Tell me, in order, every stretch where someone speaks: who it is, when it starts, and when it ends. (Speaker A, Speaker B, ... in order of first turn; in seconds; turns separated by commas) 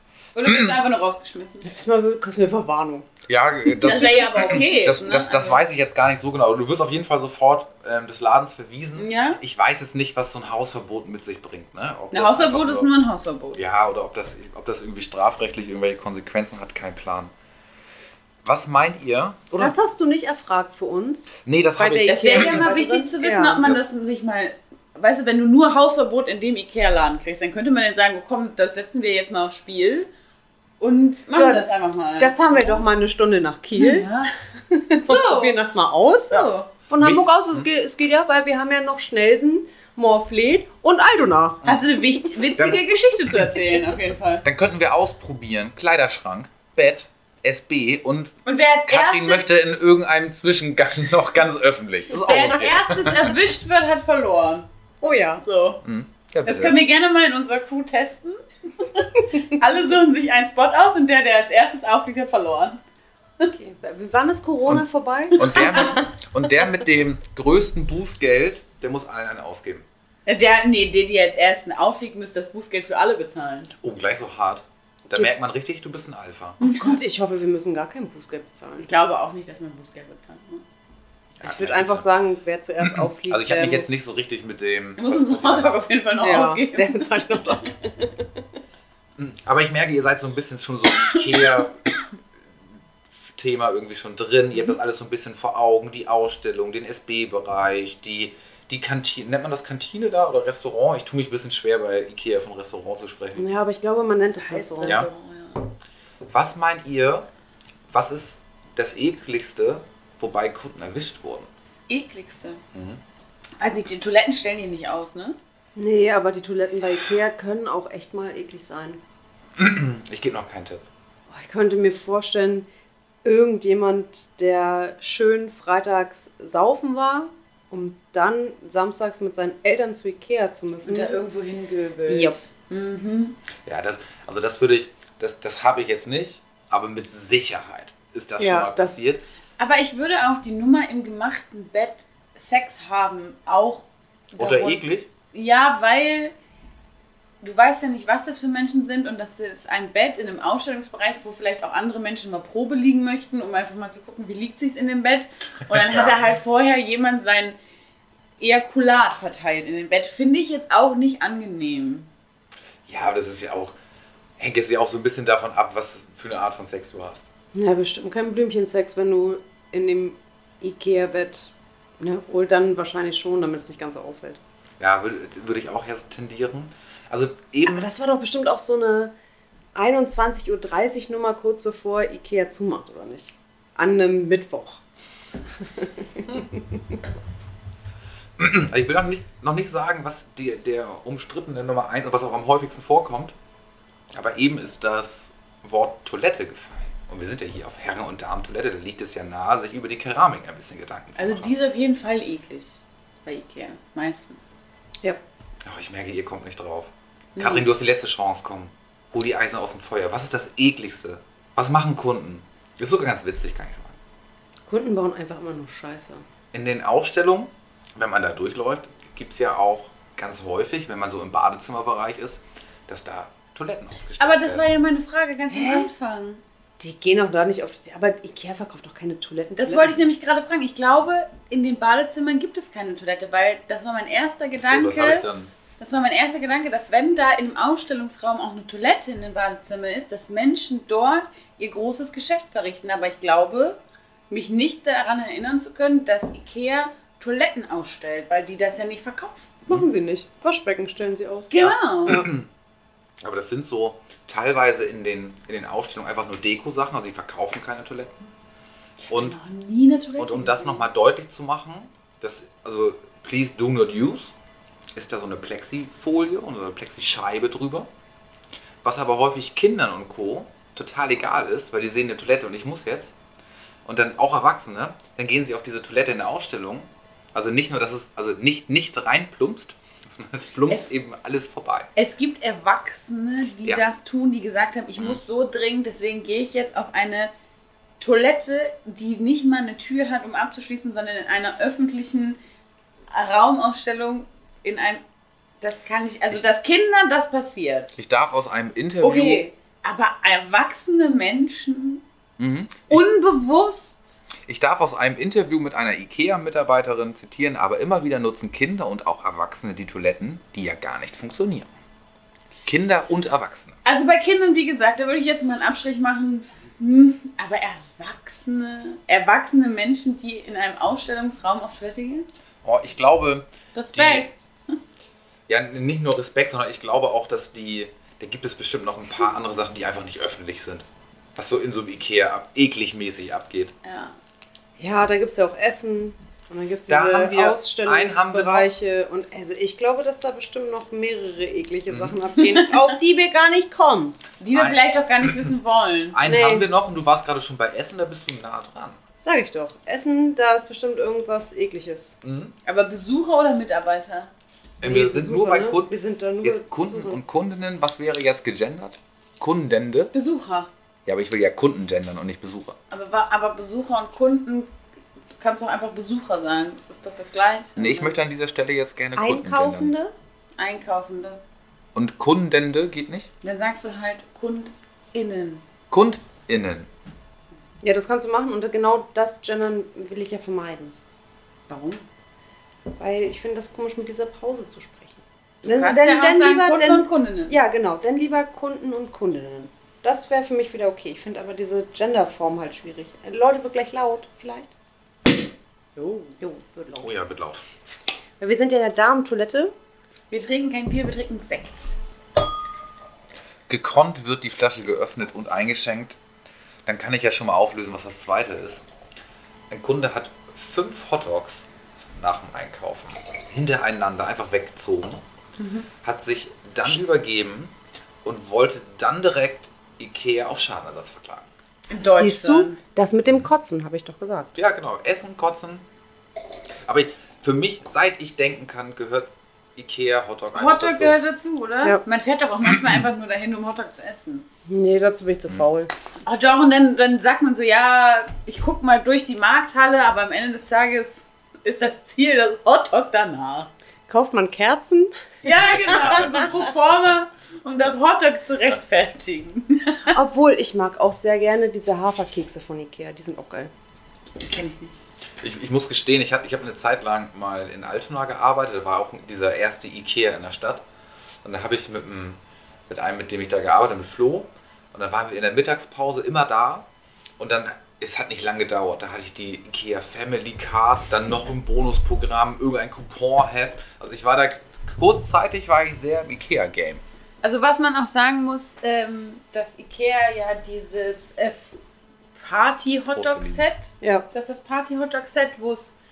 Speaker A: 0.3-1.7, Speaker B: 0.4-0.8, Speaker C: 1.6-3.1, Speaker B: 3.3-12.9, Speaker A: 3.8-5.6, Speaker A: 8.9-9.4, Speaker A: 12.1-13.6, Speaker B: 13.5-17.3, Speaker B: 18.4-19.7, Speaker C: 19.6-23.8, Speaker B: 21.4-22.7, Speaker A: 22.0-30.1, Speaker A: 30.8-32.8, Speaker C: 31.3-31.6, Speaker C: 32.2-34.1, Speaker A: 33.8-34.3, Speaker C: 34.7-41.6, Speaker A: 34.9-35.6, Speaker A: 36.3-36.7, Speaker B: 37.0-37.7, Speaker A: 41.6-44.4, Speaker B: 42.5-42.8, Speaker B: 44.4-48.3, Speaker A: 48.5-49.5, Speaker B: 48.9-53.4, Speaker A: 52.2-54.7, Speaker C: 55.0-55.4, Speaker A: 55.4-55.8, Speaker B: 55.8-56.8, Speaker A: 56.5-62.8, Speaker C: 63.4-66.1, Speaker B: 65.4-69.8, Speaker A: 70.2-73.7, Speaker B: 73.8-76.6, Speaker A: 76.6-77.0, Speaker C: 76.6-78.9, Speaker A: 78.8-80.6, Speaker B: 81.4-82.0, Speaker C: 81.4-84.1, Speaker B: 82.8-85.8, Speaker A: 85.0-87.4, Speaker C: 86.2-88.4, Speaker B: 89.2-91.8, Speaker B: 93.2-103.5, Speaker C: 103.3-105.0, Speaker A: 104.3-105.7, Speaker B: 106.3-107.3, Speaker B: 107.9-111.5, Speaker A: 111.9-112.6, Speaker B: 112.7-113.0, Speaker A: 113.6-115.4, Speaker C: 115.8-119.0, Speaker B: 119.6-120.8, Speaker C: 121.3-122.7, Speaker C: 123.2-131.2, Speaker A: 130.8-133.4, Speaker C: 132.1-132.4, Speaker B: 133.6-139.2, Speaker C: 138.4-139.1, Speaker A: 139.6-146.3, Speaker B: 144.4-145.1, Speaker A: 147.4-157.6, Speaker B: 155.7-156.1, Speaker A: 158.4-162.1, Speaker B: 162.9-163.7, Speaker B: 164.4-167.3, Speaker C: 167.5-174.4, Speaker B: 174.8-177.9, Speaker C: 177.6-179.1, Speaker C: 179.7-184.8, Speaker C: 185.6-187.0, Speaker B: 188.4-193.3, Speaker B: 194.1-201.5, Speaker A: 201.2-204.5, Speaker B: 205.6-213.9, Speaker A: 207.3-207.7, Speaker C: 214.7-216.2, Speaker B: 216.5-224.7, Speaker A: 224.2-226.4, Speaker C: 225.5-225.9, Speaker C: 226.8-230.1, Speaker A: 229.6-235.3, Speaker B: 234.6-235.5, Speaker A: 235.8-243.8, Speaker A: 244.3-249.5, Speaker C: 249.7-251.5, Speaker A: 251.5-252.3, Speaker B: 251.6-252.5, Speaker B: 253.2-258.2, Speaker A: 259.0-260.9, Speaker B: 259.1-259.4, Speaker B: 260.2-264.3, Speaker B: 264.9-267.9, Speaker B: 268.8-273.1, Speaker B: 273.8-281.9, Speaker A: 281.9-287.3, Speaker A: 288.0-292.4, Speaker A: 293.1-295.0, Speaker A: 295.6-297.9, Speaker B: 297.9-299.4, Speaker A: 299.0-302.0, Speaker B: 302.4-303.0, Speaker A: 302.9-304.2, Speaker B: 304.4-311.7, Speaker B: 312.6-313.8, Speaker A: 313.8-322.2, Speaker B: 322.6-324.3, Speaker A: 323.7-324.8, Speaker B: 325.5-333.7, Speaker A: 333.8-334.1, Speaker C: 334.8-344.1, Speaker B: 336.9-338.7, Speaker B: 341.9-342.2, Speaker A: 342.4-342.8, Speaker A: 344.4-346.2, Speaker B: 344.5-345.5, Speaker B: 346.1-349.0, Speaker C: 346.2-346.7, Speaker C: 349.2-352.2, Speaker B: 352.2-352.5, Speaker A: 352.6-354.3, Speaker B: 354.8-360.1, Speaker C: 354.8-357.2, Speaker A: 360.1-360.7, Speaker B: 361.1-362.8, Speaker A: 362.9-364.7, Speaker A: 365.3-368.2, Speaker B: 367.8-369.9, Speaker C: 369.1-370.1, Speaker A: 370.6-371.4, Speaker B: 371.9-373.3, Speaker A: 373.4-375.6, Speaker B: 375.9-376.9, Speaker C: 377.8-380.9, Speaker A: 381.7-382.0, Speaker C: 383.0-394.7, Speaker A: 385.6-387.6, Speaker A: 395.9-396.4, Speaker C: 396.4-397.1, Speaker B: 397.0-397.6, Speaker C: 398.4-399.7, Speaker A: 400.3-402.0, Speaker B: 403.7-406.2, Speaker B: 406.9-408.8, Speaker B: 409.7-415.2, Speaker A: 415.6-415.9, Speaker B: 416.0-421.5, Speaker A: 421.9-422.8, Speaker C: 422.0-424.5, Speaker B: 424.5-425.9, Speaker B: 426.9-431.2, Speaker A: 430.5-434.5, Speaker C: 434.7-435.9, Speaker A: 436.2-443.7, Speaker C: 444.1-446.2, Speaker A: 445.4-450.1, Speaker C: 450.1-453.7, Speaker A: 454.4-455.0, Speaker B: 455.4-460.8, Speaker B: 461.4-466.9, Speaker B: 467.4-477.0, Speaker A: 477.4-481.7, Speaker A: 482.4-485.9, Speaker B: 483.1-483.6